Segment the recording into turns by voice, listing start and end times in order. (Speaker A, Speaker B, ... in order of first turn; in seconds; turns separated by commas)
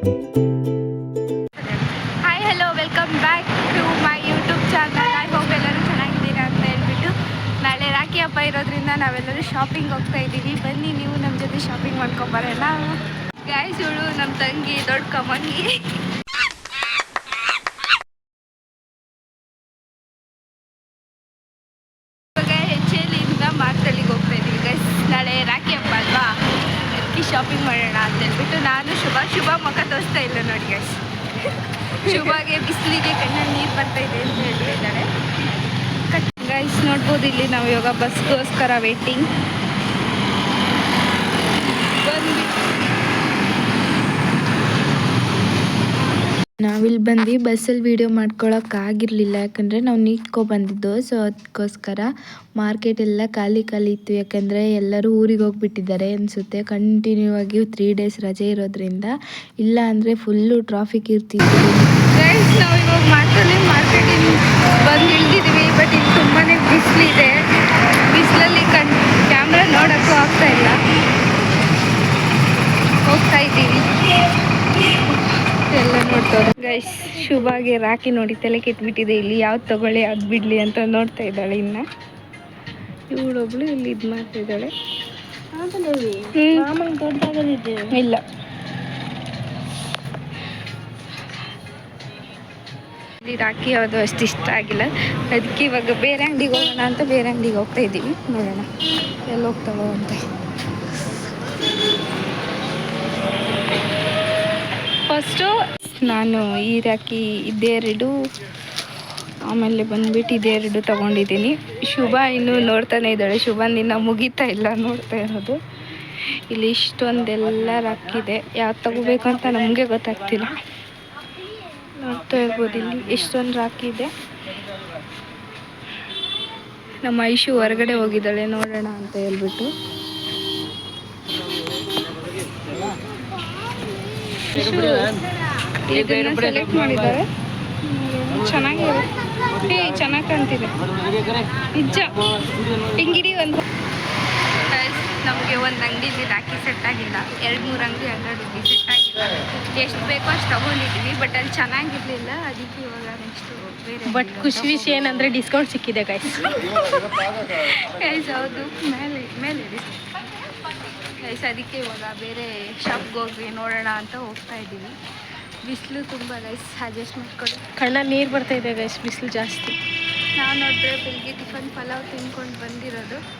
Speaker A: 1.6-15.7, Speaker A: 22.4-26.3, Speaker A: 26.9-31.1, Speaker A: 31.9-35.1, Speaker A: 36.1-39.2, Speaker A: 42.0-42.5, Speaker B: 46.6-61.9, Speaker A: 62.1-67.4, Speaker A: 68.1-70.8, Speaker A: 73.0-73.9, Speaker A: 75.1-81.8, Speaker A: 83.1-84.7, Speaker C: 85.5-87.9, Speaker A: 86.3-86.7, Speaker A: 87.9-88.2, Speaker A: 93.2-98.7, Speaker A: 99.3-100.2, Speaker A: 105.1-108.1, Speaker A: 109.5-115.6, Speaker A: 116.5-120.5, Speaker A: 122.0-124.1, Speaker A: 127.0-129.7, Speaker A: 134.5-135.1, Speaker A: 135.9-137.2, Speaker A: 137.8-139.1, Speaker A: 139.6-140.8, Speaker A: 141.7-142.2, Speaker A: 142.9-143.6, Speaker A: 144.7-155.1, Speaker C: 154.1-156.6, Speaker A: 156.4-160.1, Speaker A: 161.2-164.9, Speaker A: 165.6-167.7, Speaker C: 167.8-169.8, Speaker A: 170.4-173.2